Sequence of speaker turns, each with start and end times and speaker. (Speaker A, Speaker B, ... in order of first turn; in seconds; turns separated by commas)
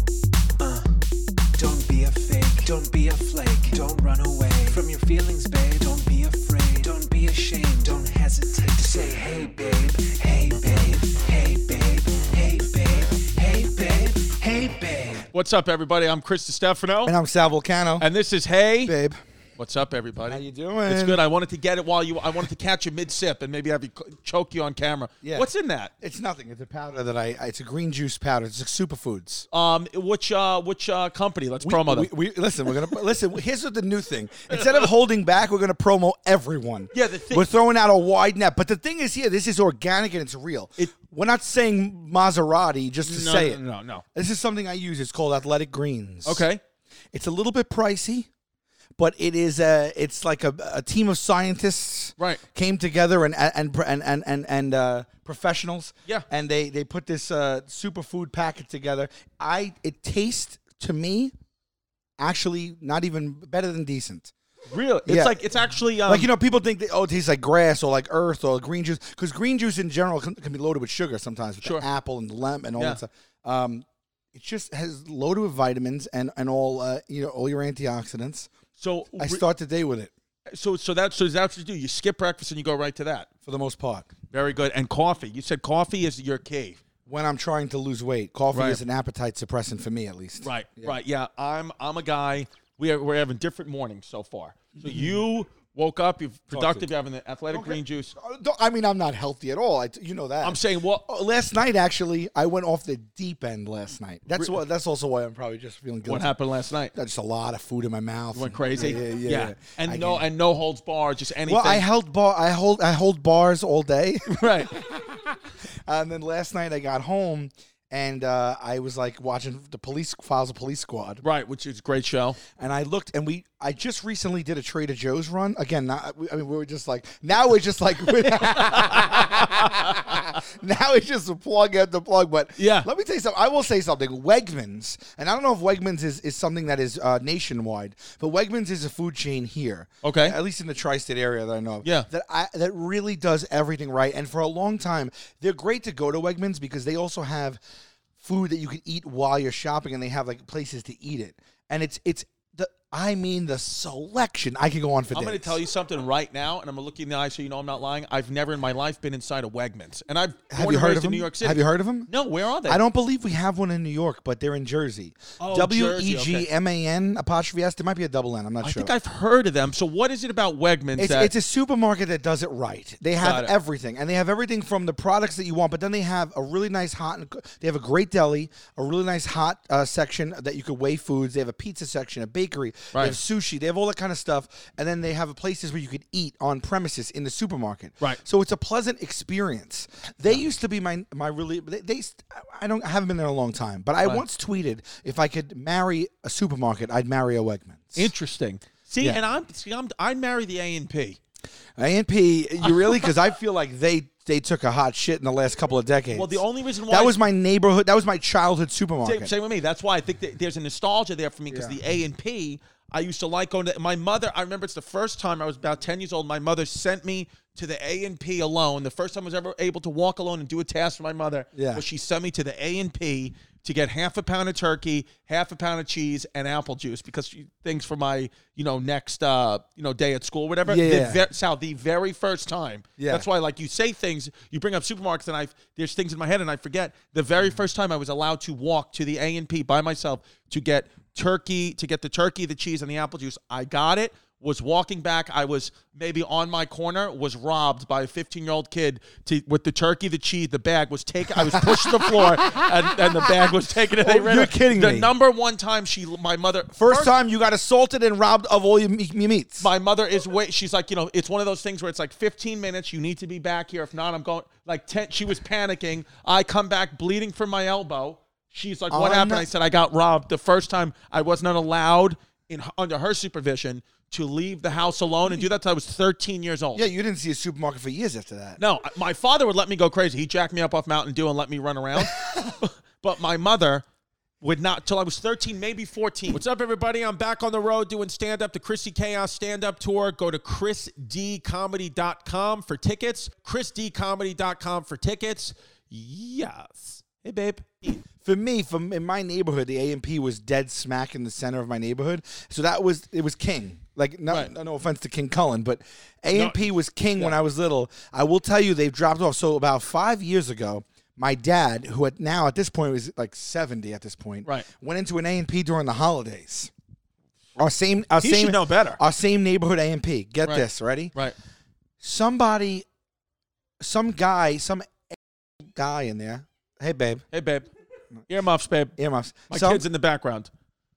Speaker A: 0.6-0.9, Speaker A: 1.6-15.3, Speaker B: 15.3-17.1, Speaker C: 17.0-18.1, Speaker B: 18.0-18.9, Speaker C: 18.8-19.2, Speaker B: 19.6-25.9, Speaker C: 20.3-21.2, Speaker C: 25.2-25.5, Speaker C: 26.0-29.5, Speaker B: 29.5-32.1, Speaker C: 31.6-43.6, Speaker B: 34.5-34.9, Speaker B: 36.9-37.5, Speaker B: 43.0-44.0, Speaker C: 44.1-46.5, Speaker B: 46.2-46.6, Speaker C: 47.1-48.3, Speaker C: 49.0-61.3, Speaker C: 62.2-64.3, Speaker B: 64.7-66.3, Speaker C: 65.0-65.4, Speaker C: 66.0-78.5, Speaker B: 78.8-79.4, Speaker C: 79.1-80.1, Speaker B: 80.5-83.3, Speaker C: 83.5-84.1, Speaker B: 84.3-86.8, Speaker C: 87.0-90.9, Speaker B: 88.5-88.8, Speaker B: 90.4-98.1, Speaker C: 94.8-95.2, Speaker C: 96.5-96.9, Speaker C: 97.5-106.3, Speaker B: 100.4-101.0, Speaker B: 106.0-106.9, Speaker C: 106.9-110.3, Speaker B: 108.3-111.8, Speaker C: 111.4-121.2, Speaker B: 114.3-114.8, Speaker B: 121.2-122.4, Speaker C: 122.5-147.6, Speaker B: 128.3-130.2, Speaker B: 132.6-132.9, Speaker B: 140.0-140.4, Speaker C: 148.2-155.6, Speaker B: 155.1-162.8, Speaker C: 160.5-162.1, Speaker C: 162.7-168.9, Speaker B: 165.4-166.4, Speaker B: 168.6-171.3, Speaker C: 171.0-198.1, Speaker B: 173.2-173.5, Speaker B: 182.9-183.2, Speaker B: 197.9-201.2, Speaker C: 201.8-209.3, Speaker B: 206.1-207.2, Speaker B: 209.0-257.1, Speaker C: 211.5-211.8, Speaker C: 221.5-221.8, Speaker C: 230.7-231.2, Speaker C: 233.0-233.2, Speaker C: 251.3-252.6, Speaker C: 254.0-255.1, Speaker C: 256.8-259.7, Speaker B: 259.6-276.8, Speaker C: 268.9-269.5, Speaker C: 276.7-278.6, Speaker B: 278.6-283.8, Speaker C: 282.0-282.4, Speaker B: 284.4-298.1, Speaker C: 298.2-316.7, Speaker B: 304.3-304.5, Speaker B: 306.3-306.6, Speaker C: 317.6-321.1, Speaker B: 318.2-319.0, Speaker B: 320.4-321.3, Speaker C: 322.0-322.8, Speaker C: 323.8-327.2, Speaker B: 327.3-327.7, Speaker B: 328.3-328.9, Speaker C: 329.0-329.9, Speaker B: 329.5-330.5